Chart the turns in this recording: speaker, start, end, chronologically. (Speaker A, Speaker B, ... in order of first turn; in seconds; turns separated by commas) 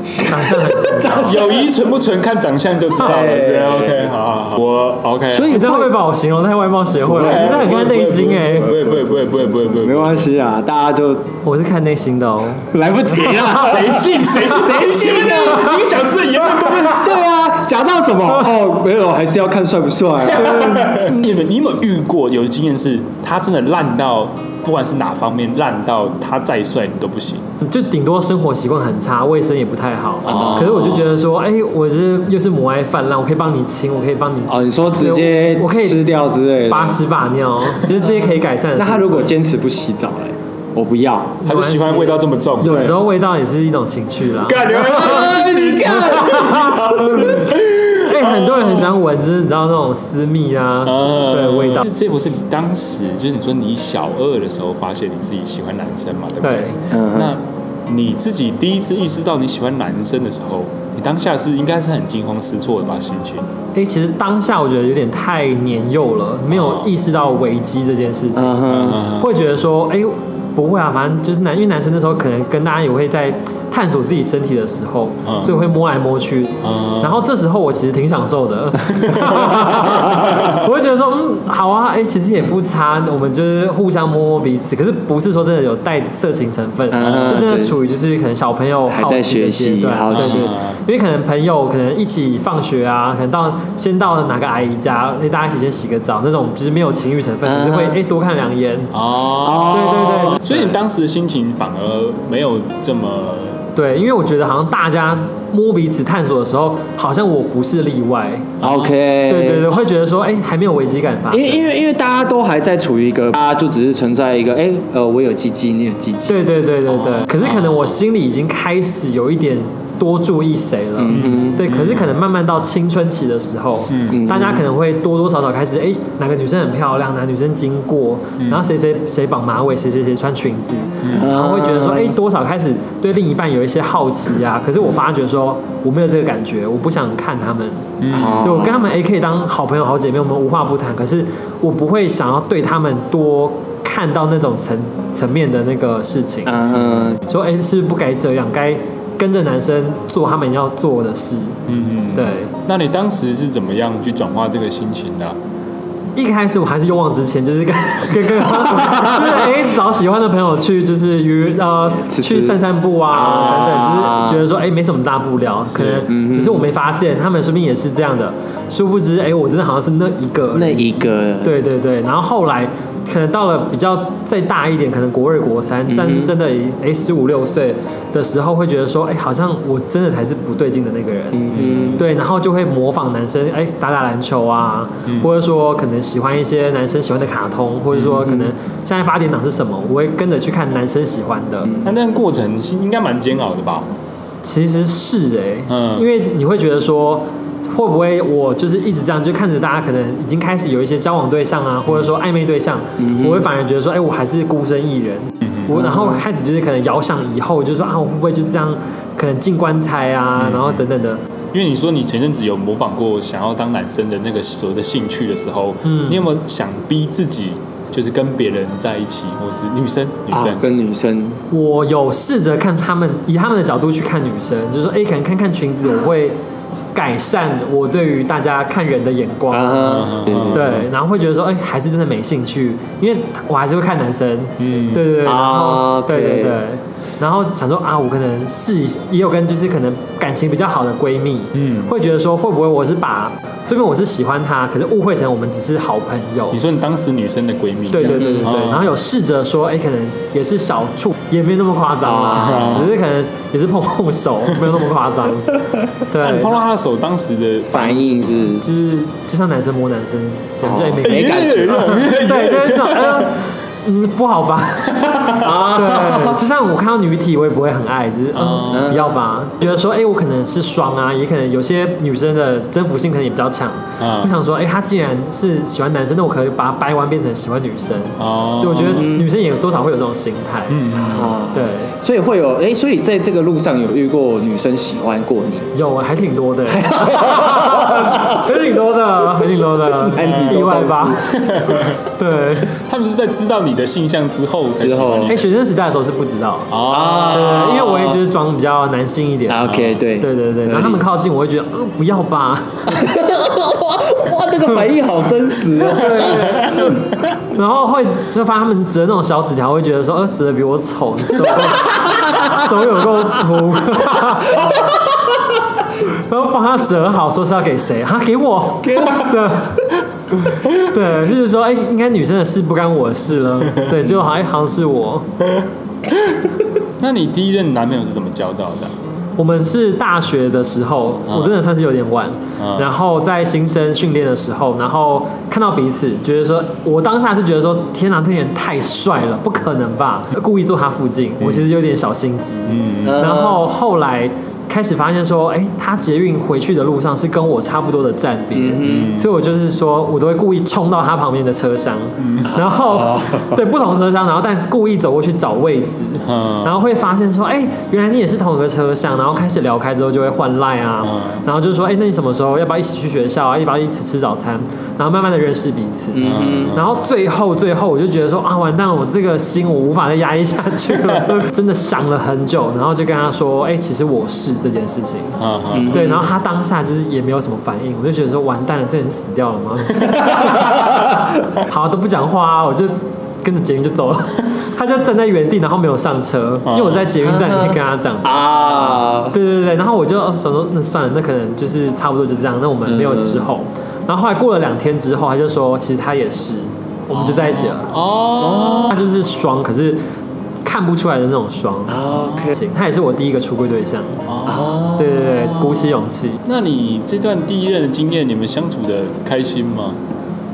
Speaker A: 0.2-1.4, Speaker B: 0.2-1.6, Speaker C: 1.2-5.6, Speaker B: 3.0-4.1, Speaker B: 5.3-5.9, Speaker A: 5.5-8.8, Speaker B: 7.0-7.8, Speaker C: 7.1-10.2, Speaker B: 9.6-11.3, Speaker A: 11.4-12.7, Speaker B: 12.7-15.9, Speaker C: 13.2-17.2, Speaker B: 16.6-21.2, Speaker C: 20.2-27.4, Speaker A: 27.6-36.1, Speaker C: 30.2-31.1, Speaker B: 30.3-30.7, Speaker B: 34.5-37.0, Speaker A: 36.7-39.3, Speaker B: 38.8-41.4, Speaker A: 41.4-45.3, Speaker C: 41.4-43.0, Speaker C: 44.4-48.9, Speaker B: 44.7-47.4, Speaker A: 46.0-46.8, Speaker A: 48.0-51.9, Speaker C: 50.8-63.5, Speaker A: 56.4-56.8, Speaker B: 56.9-57.3, Speaker A: 63.7-98.9, Speaker C: 66.5-66.9, Speaker B: 68.3-69.1, Speaker C: 68.7-69.3, Speaker C: 75.2-75.5, Speaker C: 76.6-77.2, Speaker C: 79.1-80.5, Speaker B: 86.9-87.8, Speaker C: 87.0-87.5, Speaker B: 88.9-90.5, Speaker C: 90.1-90.8, Speaker B: 97.4-98.0, Speaker C: 98.9-103.6, Speaker B: 99.4-100.4, Speaker A: 99.7-100.8, Speaker A: 103.8-108.5, Speaker C: 108.6-108.9, Speaker B: 108.6-109.8, Speaker A: 109.3-111.7, Speaker B: 111.3-116.4, Speaker A: 116.3-146.6, Speaker C: 117.2-117.9, Speaker B: 121.0-121.6, Speaker C: 121.1-122.1, Speaker C: 123.9-124.2, Speaker B: 124.1-124.7, Speaker C: 131.0-131.3, Speaker B: 131.1-132.2, Speaker C: 138.0-138.6, Speaker B: 138.1-138.9, Speaker B: 146.4-147.2, Speaker A: 147.3-151.6, Speaker C: 151.7-155.4, Speaker A: 152.1-152.5, Speaker A: 156.2-191.7, Speaker B: 161.9-164.5, Speaker B: 165.9-166.7, Speaker B: 170.5-171.5, Speaker B: 175.9-176.3, Speaker B: 181.3-182.0, Speaker C: 181.5-182.0, Speaker C: 187.9-188.3, Speaker C: 191.8-193.9, Speaker A: 194.4-211.2, Speaker C: 195.7-196.1, Speaker B: 203.0-203.5, Speaker C: 205.4-205.7, Speaker B: 205.7-206.2, Speaker C: 210.4-210.8, Speaker C: 211.5-220.6, Speaker A: 215.8-216.2, Speaker B: 220.3-221.4, Speaker A: 221.5-226.3, Speaker A: 226.9-246.6, Speaker B: 229.5-230.8, Speaker C: 229.8-230.8, Speaker C: 234.6-235.1, Speaker B: 235.2-236.6, Speaker C: 241.5-241.9, Speaker C: 246.5-248.9, Speaker A: 247.9-256.6, Speaker B: 248.0-248.6, Speaker B: 252.0-252.9, Speaker C: 252.3-252.9, Speaker C: 256.2-258.5, Speaker B: 257.7-258.6, Speaker A: 258.6-261.5, Speaker B: 260.6-262.1, Speaker C: 261.0-263.4, Speaker A: 262.0-280.8, Speaker C: 265.1-265.3, Speaker B: 265.4-266.4, Speaker C: 268.3-269.0, Speaker B: 268.7-269.1, Speaker C: 274.0-274.3, Speaker C: 278.2-279.1, Speaker B: 278.9-279.3, Speaker C: 280.7-281.3, Speaker B: 280.9-285.7, Speaker A: 281.5-281.9, Speaker A: 285.7-292.7, Speaker B: 286.7-288.4, Speaker B: 290.0-291.3, Speaker C: 290.2-290.6, Speaker C: 291.3-292.0, Speaker C: 292.7-295.5, Speaker B: 294.8-295.3, Speaker A: 295.3-296.7, Speaker C: 296.7-297.6, Speaker B: 296.9-298.2, Speaker A: 297.3-299.6, Speaker B: 299.5-301.1, Speaker C: 299.6-300.0, Speaker A: 300.2-303.1, Speaker B: 302.9-307.0, Speaker A: 306.0-314.7, Speaker C: 306.1-306.9, Speaker B: 312.0-312.3, Speaker B: 314.3-315.1, Speaker A: 316.1-325.3, Speaker B: 318.8-319.3, Speaker C: 327.0-328.9, Speaker A: 329.4-375.4, Speaker C: 332.6-332.9, Speaker C: 342.7-343.2, Speaker B: 343.0-343.6, Speaker B: 348.5-349.1, Speaker C: 348.8-349.3, Speaker C: 352.2-352.5, Speaker B: 352.9-353.5, Speaker C: 356.2-356.7, Speaker C: 361.0-361.4, Speaker B: 366.1-366.8, Speaker C: 366.2-366.8, Speaker C: 375.4-376.1, Speaker B: 375.7-376.3, Speaker A: 375.9-380.3, Speaker A: 381.6-388.4, Speaker C: 386.7-387.1, Speaker B: 387.2-389.3, Speaker A: 389.3-397.9, Speaker B: 392.9-393.5, Speaker C: 397.1-399.0, Speaker B: 398.4-398.9, Speaker A: 398.8-400.0, Speaker A: 400.6-404.2, Speaker B: 401.9-402.6, Speaker C: 402.2-402.5, Speaker C: 404.3-405.0, Speaker B: 404.4-405.6, Speaker A: 404.9-406.4, Speaker C: 406.4-410.0